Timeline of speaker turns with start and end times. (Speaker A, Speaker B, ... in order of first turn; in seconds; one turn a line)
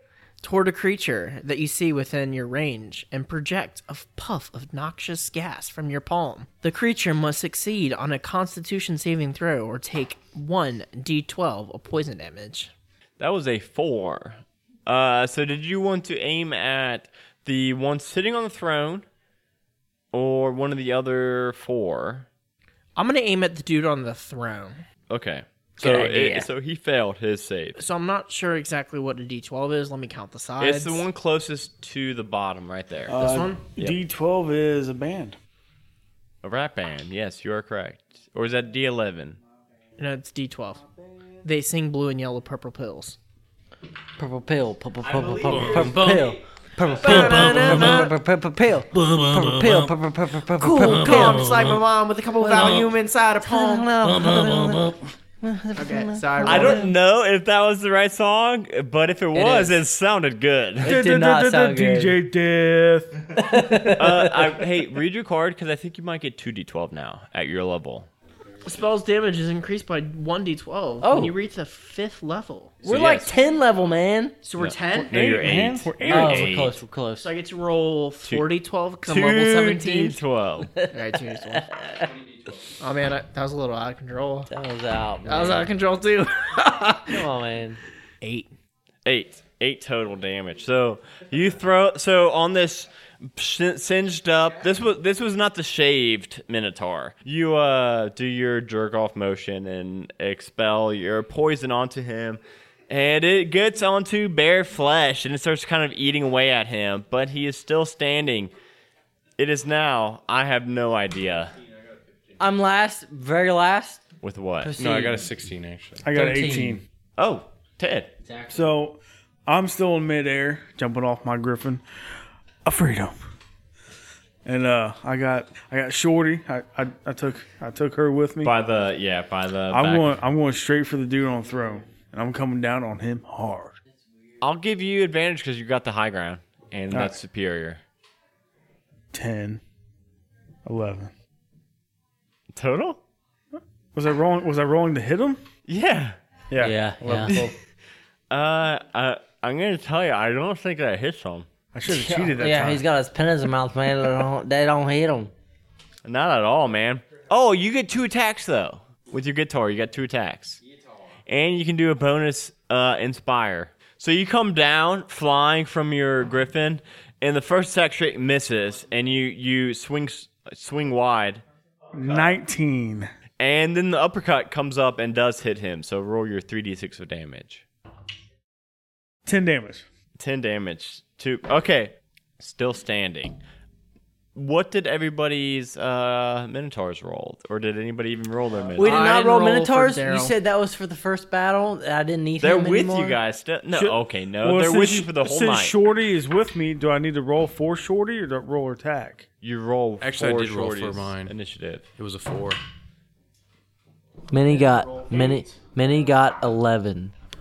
Speaker A: 0.4-12.7
Speaker B: 13.2-19.1
Speaker B: 20.1-22.3
Speaker A: 23.0-24.8
Speaker B: 25.1-27.8
Speaker C: 25.8-26.5
Speaker A: 27.8-31.1
Speaker B: 30.6-33.2
Speaker D: 33.1-35.4
Speaker A: 33.2-33.6
Speaker B: 36.4-39.4
Speaker A: 40.0-40.8
Speaker A: 41.4-43.2
Speaker C: 44.2-51.8
Speaker E: 45.6-46.2
Speaker A: 47.0-48.1
Speaker E: 49.2-49.8
Speaker A: 50.6-54.5
Speaker C: 52.4-56.9
Speaker A: 55.8-56.9
Speaker B: 56.4-61.0
Speaker C: 59.4-59.8
Speaker C: 60.8-62.2
Speaker D: 60.8-63.7
Speaker C: 63.4-64.5
Speaker B: 63.9-68.1
Speaker A: 68.7-72.8
Speaker C: 71.0-71.3
Speaker C: 72.8-74.4
Speaker B: 72.8-73.3
Speaker A: 74.4-75.2
Speaker B: 74.6-76.8
Speaker D: 74.9-76.5
Speaker C: 76.0-77.3
Speaker A: 77.2-80.2
Speaker B: 79.1-80.7
Speaker C: 80.8-82.1
Speaker A: 80.9-81.7
Speaker A: 82.8-84.5
Speaker C: 84.5-85.7
Speaker A: 85.3-87.2
Speaker C: 87.1-87.8
Speaker A: 88.2-88.5
Speaker B: 89.0-108.5
Speaker B: 109.4-111.5
Speaker C: 112.4-114.0
Speaker B: 114.2-114.7
Speaker C: 114.6-115.3
Speaker E: 114.8-116.0
Speaker D: 116.0-116.8
Speaker C: 116.1-116.8
Speaker B: 117.2-118.1
Speaker D: 118.5-121.8
Speaker D: 122.6-123.2
Speaker D: 124.5-128.5
Speaker B: 128.4-130.2
Speaker D: 129.7-133.8
Speaker B: 134.4-137.8
Speaker D: 136.9-137.2
Speaker D: 139.1-139.6
Speaker D: 140.7-141.1
Speaker B: 142.6-143.0
Speaker D: 143.9-145.4
Speaker B: 145.7-146.2
Speaker D: 146.5-147.5
Speaker C: 146.6-147.4
Speaker B: 148.3-151.5
Speaker D: 151.7-152.8
Speaker C: 151.9-155.3
Speaker B: 156.1-160.6
Speaker B: 161.3-171.4
Speaker D: 171.9-173.1
Speaker B: 173.4-177.7
Speaker D: 179.2-179.8
Speaker B: 180.2-183.4
Speaker B: 184.4-189.1
Speaker C: 188.8-193.2
Speaker A: 188.8-190.3
Speaker B: 192.4-195.8
Speaker D: 193.7-199.3
Speaker B: 199.4-201.9
Speaker E: 200.0-201.3
Speaker E: 202.0-202.6
Speaker C: 204.3-207.1